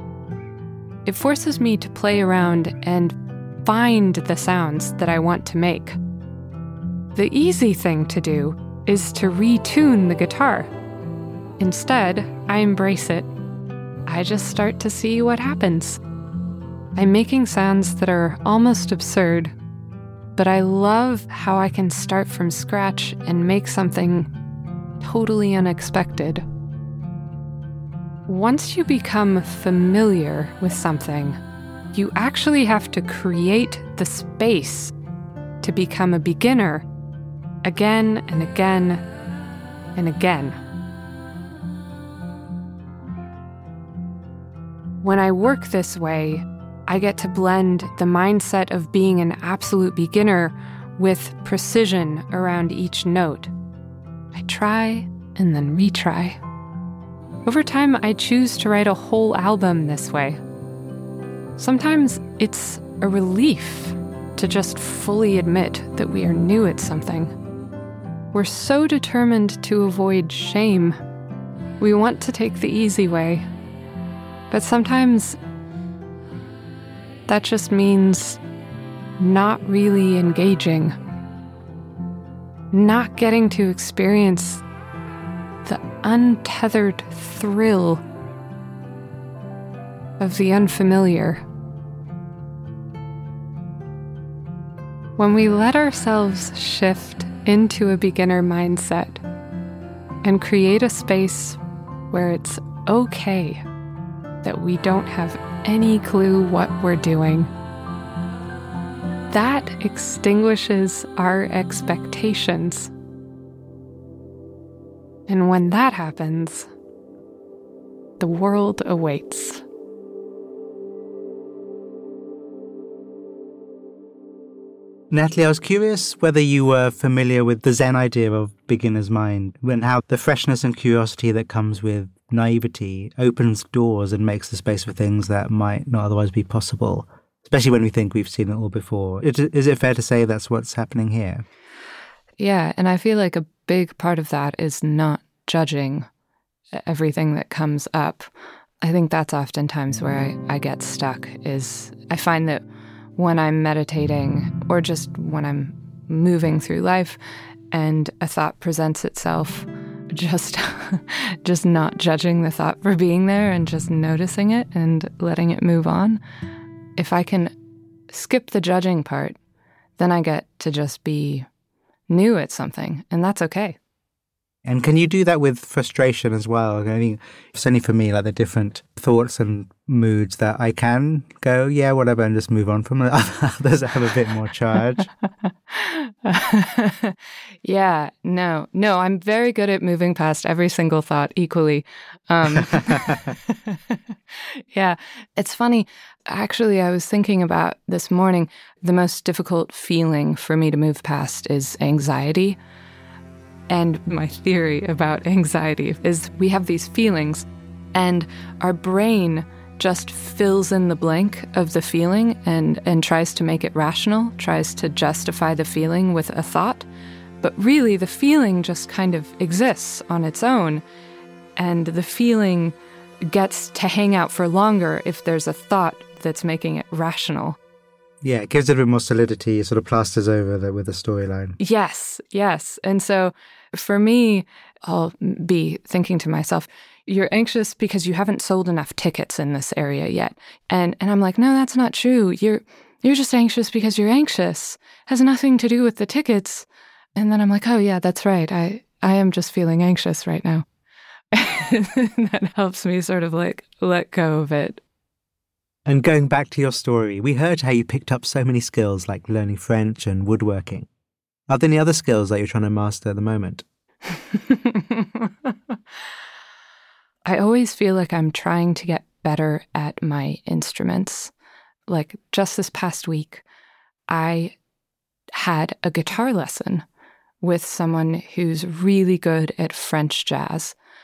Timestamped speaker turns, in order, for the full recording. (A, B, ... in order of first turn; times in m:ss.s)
0:01.0-0:06.0 A
0:07.2-0:10.7 A
0:11.6-0:13.3 A
0:14.1-0:16.0 A
0:17.0-0:19.5 A
0:20.4-0:24.3 A
0:25.0-0:26.4 A
0:28.3-0:31.4 A
0:31.9-0:34.9 A
0:35.6-0:36.9 A
0:37.6-0:39.0 A
0:40.0-0:40.6 A
0:45.0-0:53.5 A
0:54.3-0:56.4 A
0:57.5-1:00.4 A
1:01.6-1:07.3 A
1:08.3-1:11.0 A
1:11.8-1:13.5 A
1:14.5-1:15.4 A
1:17.3-1:18.4 A
1:19.2-1:21.0 A
1:22.7-1:24.6 A
1:25.6-1:28.0 A
1:30.2-1:31.4 A
1:35.2-1:39.2 A
1:40.2-1:41.6 A
1:42.1-1:43.6 A
1:44.4-1:47.5 A
1:49.3-1:52.9 A
1:55.3-1:56.7 A
1:58.2-1:59.6 A
2:05.1-2:21.5 B
2:22.4-2:26.1 A
2:26.7-2:28.3 A
2:28.8-2:32.6 A
2:33.2-2:37.2 A
2:37.7-2:46.2 A
2:47.0-2:47.5 A
2:48.1-2:49.4 A
2:50.0-2:51.5 A
2:52.1-2:53.8 A
2:54.6-3:05.1 B
3:05.7-3:22.6 A
3:12.9-3:13.3 B
3:23.7-3:36.9 A
3:37.4-3:40.8 A
3:41.6-3:47.6 A
3:48.2-3:51.6 B
3:51.6-4:10.7 A
4:11.3-4:14.8 A
4:15.9-4:20.9 B
4:21.5-4:23.6 B
4:24.3-4:25.2 A
4:27.3-4:31.3 A
4:31.9-4:33.4 A
4:34.1-4:34.6 A
4:35.3-4:36.8 A
4:37.4-4:40.8 A